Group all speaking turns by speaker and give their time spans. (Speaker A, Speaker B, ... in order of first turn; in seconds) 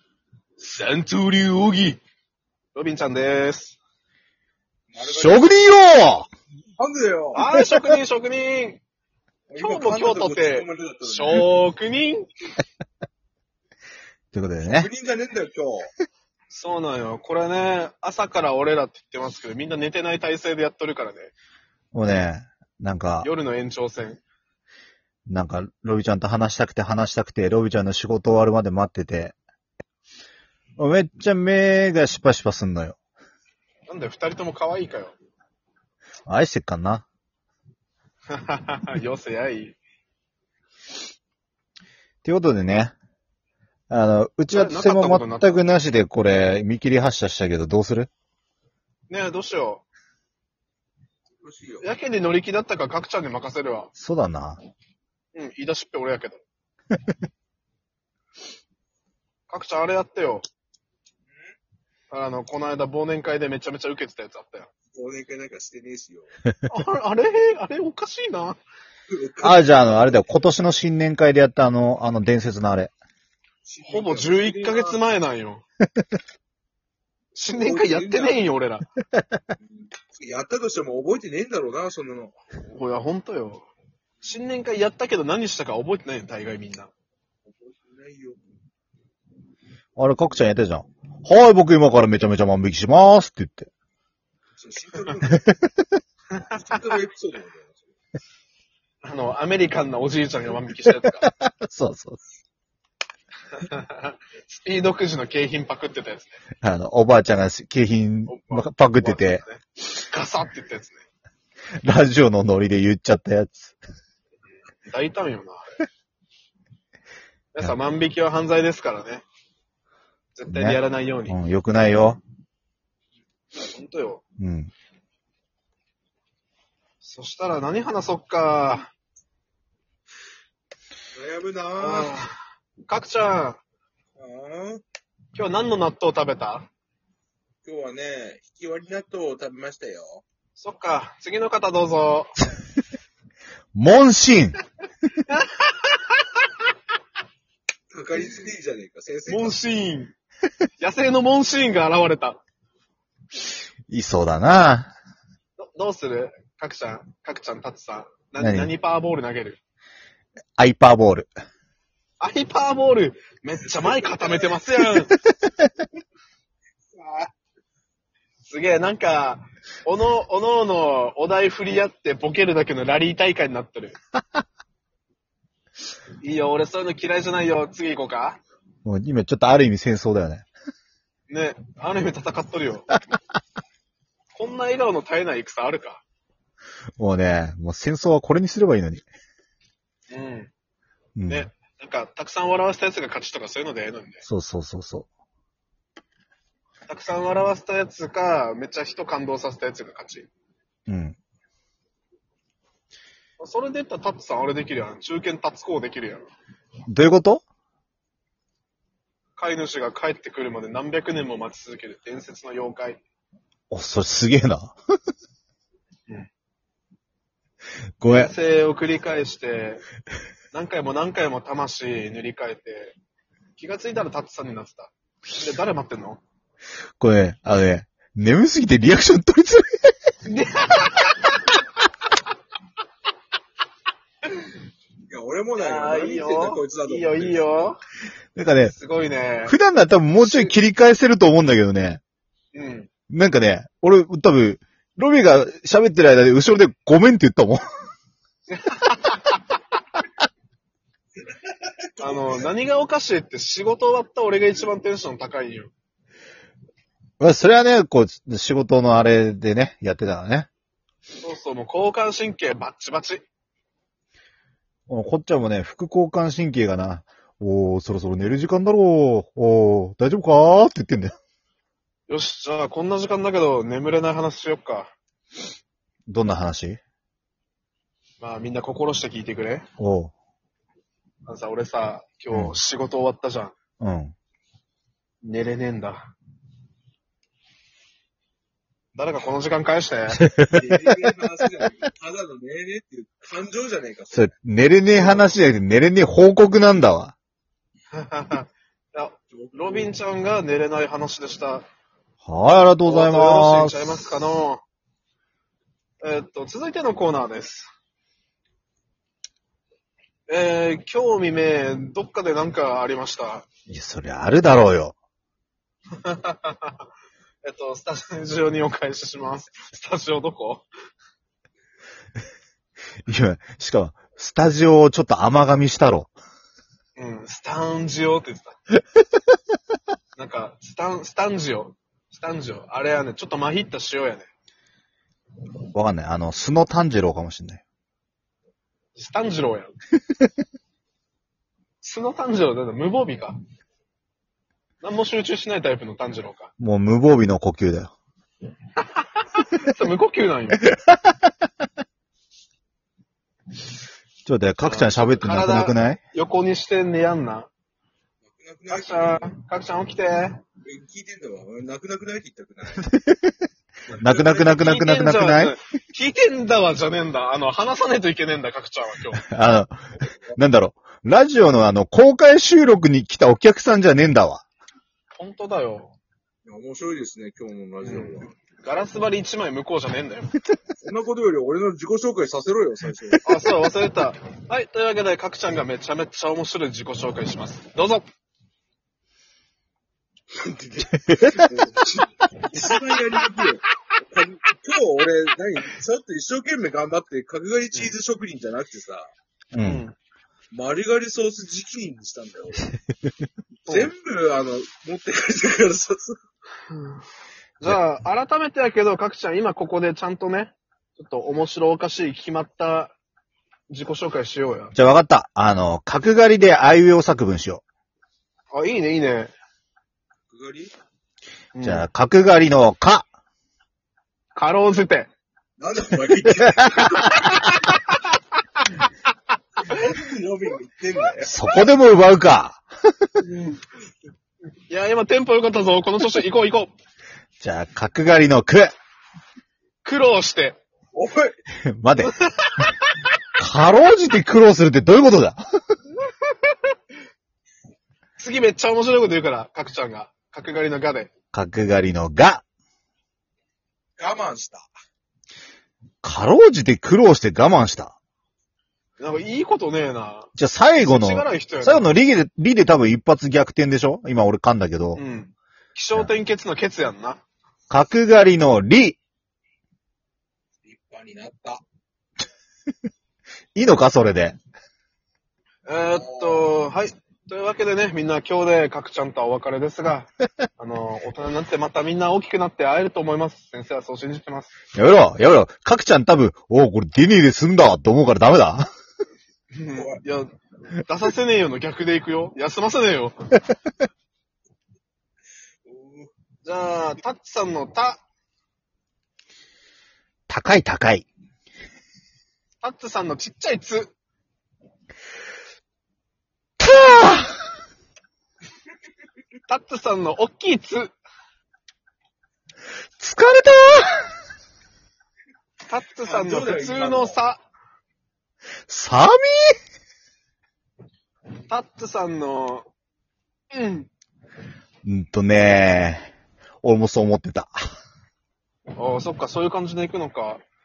Speaker A: 0.6-2.0, 2.8-3.8, 7.3-8.8, 9.6-12.3, 16.5-21.3, 23.2-24.2, 33.9-35.2, 38.3-39.8, 44.5-45.6, 49.1-49.9, 51.8-53.9, 55.3-56.4, 59.5-60.5, 62.1-64.7, 66.7-68.6, 73.9-75.6, 77.3-78.8, 82.7-83.7, 84.2-86.9, 96.4-97.0, 99.0-101.3, 103.6-106.4, 108.3-111.0, 114.9-115.7, 117.5-119.2, 120.4-121.3, 123.6-124.2, 127.0-128.9, 131.8-132.4, 132.9-133.6, 135.3-136.7, 140.6-142.4, 145.3-146.2, 149.3-150.1, 150.8-152.4, 155.6-159.6, 162.2-165.2, 168.4-174.0, 176.2-178.4, 181.3-182.9, 184.3-186.0, 190.1-190.5, 191.3-194.2, 196.9-200.3, 203.4-206.3, 209.4-213.0, 218.1-219.8, 220.5-223.0, 223.6-226.2, 230.3-231.6, 235.6-237.8, 238.7-239.6, 240.2-240.5, 242.5-242.9, 248.5-249.6, 252.0-255.7, 261.2-263.2, 272.1-274.9, 278.2-279.7, 281.3-283.6, 285.2-286.1, 288.9-290.3, 294.9-295.3, 297.9-301.7, 302.9-304.6, 306.0-307.7, 310.3-313.5, 316.0-316.9, 317.4-320.7, 327.0-328.6, 330.2-334.3, 339.0-339.7, 341.8-343.4, 344.8-346.5, 348.8-350.7, 354.6-357.5, 358.7-360.4, 364.0-369.3, 375.2-375.9, 377.8-380.3, 383.2-388.1, 392.6-393.2, 399.6-400.0, 403.7-403.9, 406.7-407.0, 407.6-412.9, 413.7-414.7, 418.5-419.3, 421.6-421.9, 424.4-425.1, 427.1-427.9, 433.2-433.6, 434.7-436.7, 439.8-440.6, 442.0-443.1, 446.2-446.6, 448.2-451.1, 459.0-461.9, 464.9-467.2, 475.7-484.6, 489.5-490.3, 490.9-493.3, 496.4-498.0, 502.6-503.9, 509.5-510.9, 515.7-517.4, 521.5-522.7, 523.5-523.9, 528.8-530.4
Speaker B: 4.9-5.6, 6.8-7.5, 9.5-11.5, 14.6-15.9, 51.4-51.9, 64.9-66.3, 69.1-70.2, 73.7-75.0, 77.5-78.4, 79.6-82.4, 87.5-88.4, 94.6-95.4, 96.5-97.8, 131.2-132.2, 134.2-134.8, 137.6-140.2, 147.9-149.6, 163.8-164.4, 166.9-167.3, 235.1-237.7, 251.9-252.5, 290.5-294.3, 299.3-299.9, 358.2-359.3, 360.6-362.9, 364.0-364.6, 376.4-378.3, 380.8-383.3, 390.3-399.1, 400.5-402.7, 403.7-406.2, 420.3-420.7, 425.6-427.1, 429.7-431.3, 440.9-441.4, 454.0-454.7, 470.6-471.6, 475.9-476.6, 489.7-490.0, 495.6-496.1, 516.0-517.2
Speaker C: 5.0-6.3, 14.3-14.9, 21.9-23.3, 25.3-29.4, 30.8-33.0, 36.3-37.0, 42.2-42.9, 43.9-48.1, 54.0-54.6, 69.4-72.9, 90.0-93.7, 101.2-102.2, 106.6-109.4, 111.8-113.8, 120.5-122.2, 124.4-124.7, 143.8-144.6, 153.9-154.9, 158.4-158.7, 160.6-161.3, 178.8-180.5, 187.0-189.1, 191.2-191.5, 194.2-195.1, 200.9-201.2, 206.9-207.4, 213.7-214.8, 218.0-218.3, 227.0-229.9, 238.4-238.7, 239.5-242.0, 243.1-247.6, 257.2-260.5, 264.9-271.1, 276.1-276.8, 279.8-280.1, 282.3-282.6, 283.8-284.1, 290.2-290.6, 294.1-297.1, 302.2-304.1, 313.7-314.9, 323.1-326.1, 335.7-337.6, 346.6-347.9, 354.2-356.0, 362.9-363.3, 364.0-365.6, 369.2-369.8, 370.4-374.4, 391.1-391.5, 399.5-399.9, 414.7-417.6, 421.6-423.1, 431.2-432.6, 437.4-438.7, 441.7-442.1, 443.4-445.4, 451.3-452.4, 456.0-457.9, 460.4-465.0, 467.7-469.0, 473.6-474.4, 484.8-488.7, 500.3-501.1, 506.6-507.4, 513.0-514.1, 518.7-519.5, 524.8-526.1, 526.6-527.6